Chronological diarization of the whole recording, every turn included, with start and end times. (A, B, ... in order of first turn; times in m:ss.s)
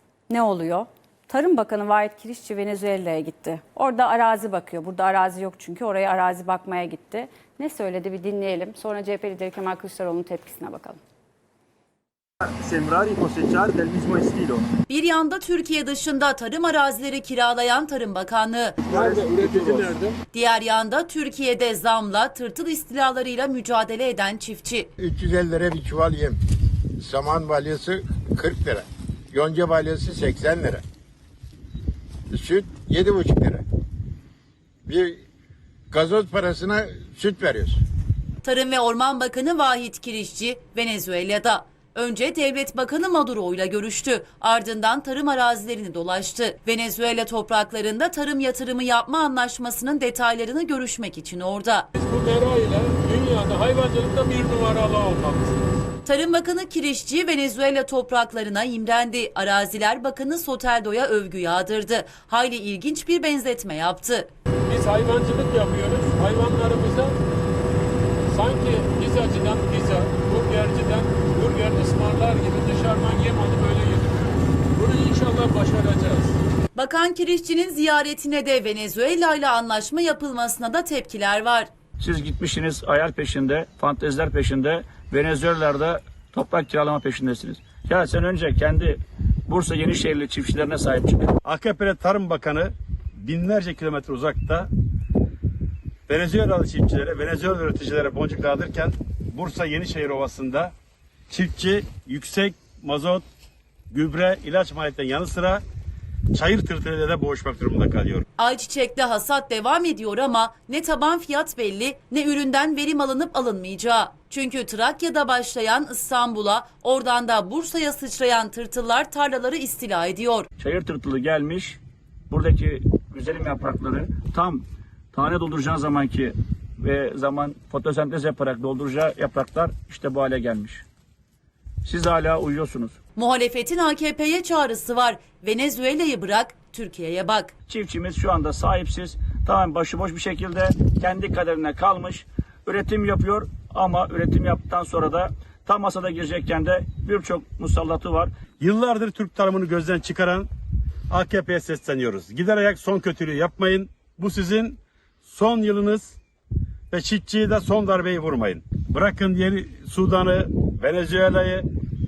0:00.3-0:11.0 A
0:12.5-0:14.7 B
0:14.9-0:19.0 C
0:18.8-0:20.2 D
0:20.3-0:24.9 C
0:25.0-0:26.4 E
0:27.0-0:30.8 E
0:32.3-0:33.6 E
0:34.9-0:35.2 E
0:35.9-0:37.8 E
0:38.4-0:51.9 C
0:52.0-0:55.7 D
0:56.0-1:04.3 C
1:04.7-1:07.2 D
1:08.3-1:16.4 D
1:16.8-1:21.7 C
1:22.0-1:31.3 F
1:31.4-1:34.7 G
1:36.1-1:40.7 G
1:41.3-1:43.2 G
1:43.9-1:45.6 G
1:46.3-1:48.2 G
1:48.4-2:00.5 C
2:00.6-2:01.8 F
2:02.3-2:10.8 F
2:11.8-2:13.0 F
2:13.2-2:17.5 C
2:17.7-2:28.3 F
2:28.6-2:30.5 G
2:31.1-2:36.2 G
2:36.9-2:41.7 G